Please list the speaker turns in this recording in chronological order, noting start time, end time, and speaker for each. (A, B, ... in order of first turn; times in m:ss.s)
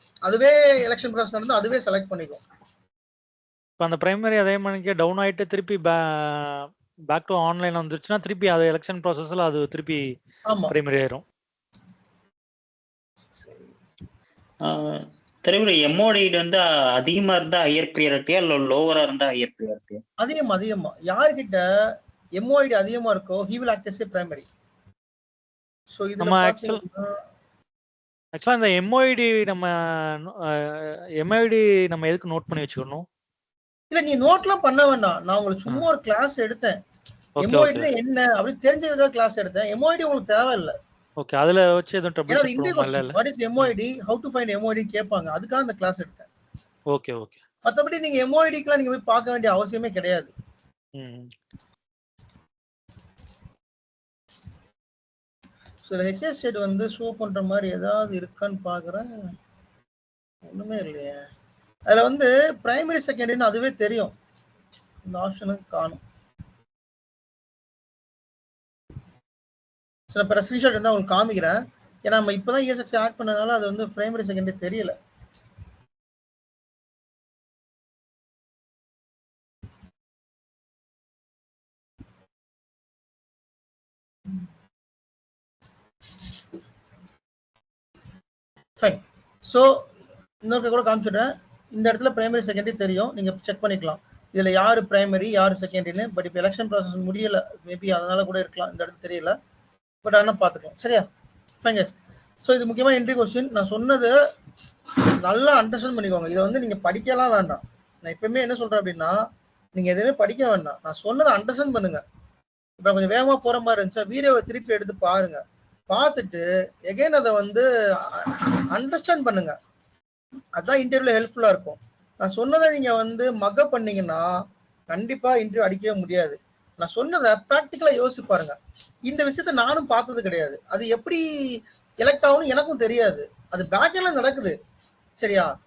0:00.2-0:02.4 A
0:03.8-0:10.0 B
0:10.5-0:10.7 A
0:10.7-0:11.2 B
0:15.4-0:20.0 C
0:20.2-0:21.6 A
0:22.4-0:24.4 A
0:25.9-0:27.2 A
0:26.2-0:26.8 B
0:28.4-0:29.7 B
0:30.7-0:33.0 B
0:33.9-0:36.8 A
0:37.4-0:37.9 B
0:37.4-0:40.7 A
0:41.2-0:43.7 B
0:42.3-0:46.3 A
0:46.9-0:47.4 B
0:47.6-0:50.3 A
0:51.0-0:51.3 B
0:55.8-0:59.1 A
1:00.4-1:01.2 A
1:01.9-1:04.1 A
1:05.0-1:06.0 A
1:10.1-1:14.9 A
1:28.8-1:29.7 A
1:30.4-1:39.3 A
1:40.0-1:41.0 A
1:41.6-1:44.1 A
1:45.2-1:49.2 A
1:49.7-1:52.0 A
1:52.8-1:59.6 A
2:00.6-2:04.3 A
2:04.9-2:14.6 A
2:15.2-2:15.5 A